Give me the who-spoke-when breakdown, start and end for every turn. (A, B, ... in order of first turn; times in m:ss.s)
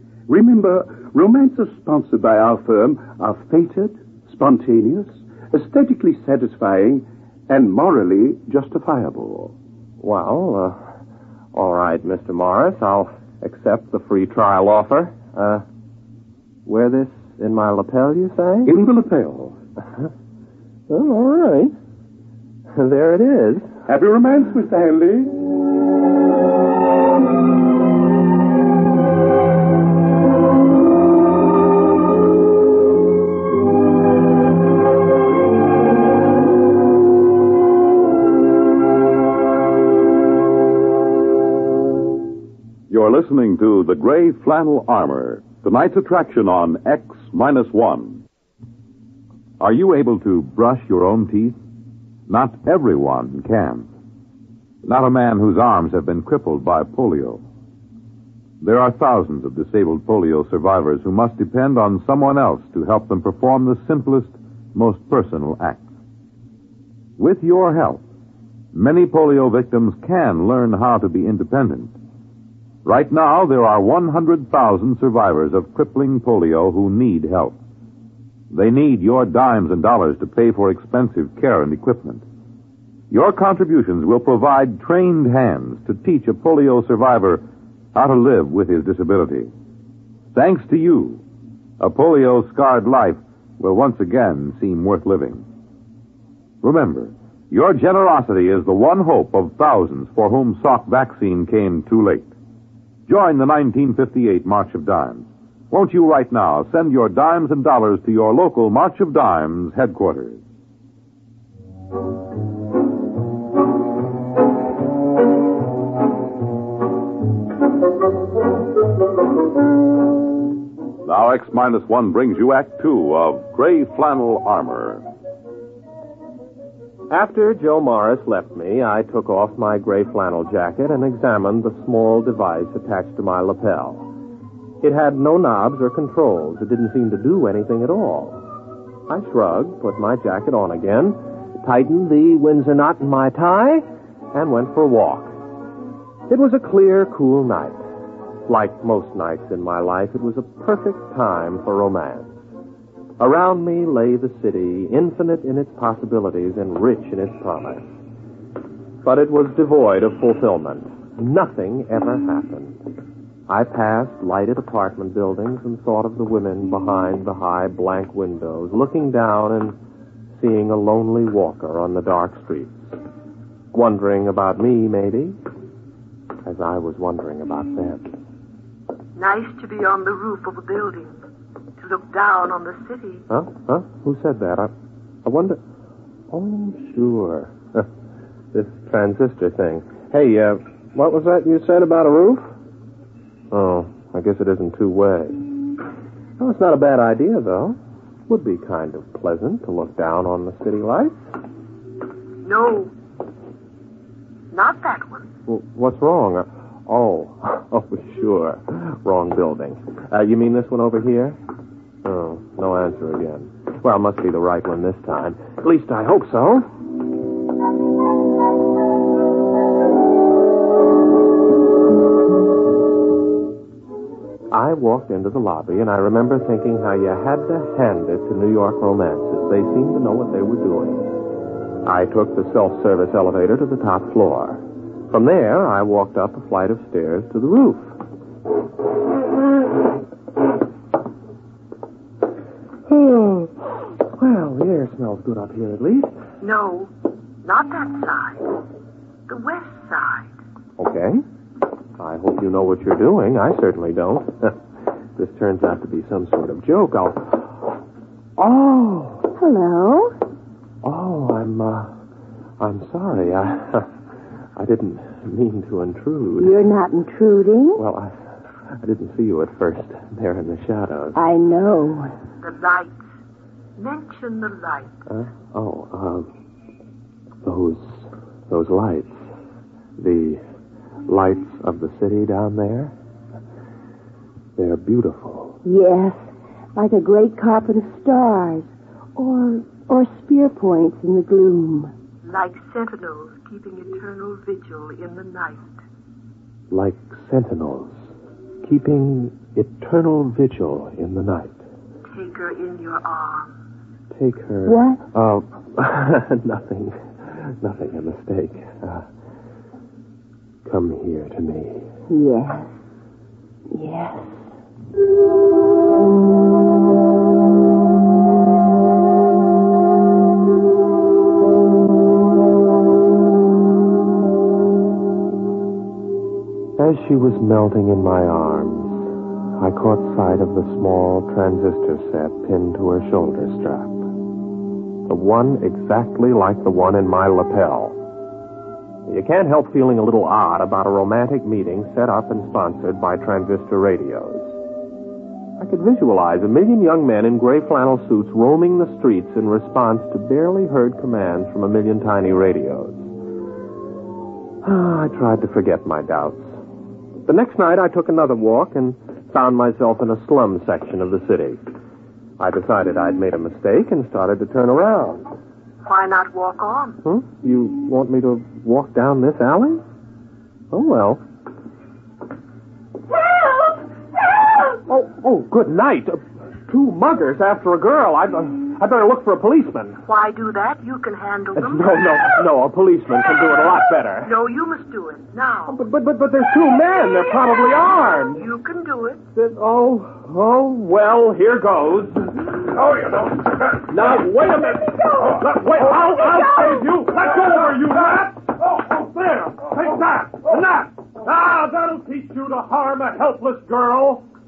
0:00.3-0:09.5 A
0:10.0-0:11.0 B
0:11.5-0:15.6 B
0:16.7-0:18.7 B
0:18.7-0:19.6 A
0:20.9-0:21.8 B
0:22.7-0:23.7 B
0:23.9-0:25.4 A
0:42.9-0:48.2 C
0:49.6-0:51.6 C
0:52.3-0:53.9 C
0:54.8-0:57.4 C
0:58.6-1:05.8 C
1:07.2-1:08.0 C
1:08.7-1:11.9 C
1:12.8-1:17.6 C
1:18.5-1:22.2 C
1:23.1-1:27.4 C
1:27.9-1:29.5 C
1:30.3-1:31.2 C
1:31.8-1:35.4 C
1:36.6-1:42.3 C
1:43.1-1:50.4 C
2:01.0-2:05.0 C
2:07.1-2:14.1 B
2:14.8-2:18.4 B
2:19.1-2:25.4 B
2:26.3-2:27.8 B
2:28.5-2:32.4 B
2:33.2-2:37.9 B
2:39.0-2:42.8 B
2:43.5-2:49.8 B
2:50.4-2:53.0 B
2:53.7-2:55.4 B
2:56.4-2:58.1 B
2:59.2-3:01.2 D
3:01.8-3:03.2 D
3:03.3-3:04.7 B
3:05.2-3:05.6 B
3:06.3-3:07.9 B
3:08.5-3:12.5 B
3:13.5-3:15.4 B
3:16.4-3:21.2 B
3:22.4-3:22.9 D
3:24.5-3:25.3 D
3:25.5-3:31.4 B
3:32.0-3:36.7 B
3:44.5-3:51.1 B
3:51.8-3:58.0 B
4:02.9-4:03.5 B
4:04.1-4:06.1 B
4:06.4-4:06.9 D
4:07.4-4:08.6 D
4:09.3-4:10.3 D
4:10.8-4:11.2 B
4:12.0-4:14.6 B
4:15.2-4:17.7 B
4:18.4-4:19.3 B
4:19.4-4:20.2 E
4:20.8-4:21.9 B
4:22.6-4:23.9 B
4:24.6-4:26.6 B
4:26.4-4:27.8 E
4:27.8-4:28.2 B
4:28.8-4:31.2 B
4:31.2-4:32.1 E
4:32.4-4:33.0 D
4:33.8-4:34.9 D
4:35.1-4:36.3 B
4:37.4-4:39.3 B
4:40.0-4:40.4 B
4:41.1-4:42.9 B
4:44.6-4:45.6 B
4:45.6-4:51.9 E
4:52.2-4:55.7 D
4:56.7-4:58.1 B
4:58.6-5:01.6 B
5:02.1-5:03.5 D
5:04.1-5:09.1 B
5:04.7-5:05.0 E
5:10.6-5:11.9 B
5:12.1-5:12.7 E
5:13.7-5:14.5 E
5:26.8-5:34.1 B
5:35.1-5:38.0 B
5:39.1-5:44.6 B
5:45.6-5:53.1 B
5:54.6-5:56.6 B
5:57.3-6:01.6 B
6:02.4-6:05.2 B
6:05.8-6:07.0 D
6:07.0-6:09.8 B
6:10.7-6:11.2 B
6:14.9-6:20.0 B
6:20.1-6:22.3 D
6:21.6-6:24.3 B
6:24.2-6:25.8 D
6:25.7-6:28.5 B
6:28.3-6:29.2 D
6:29.3-6:44.2 B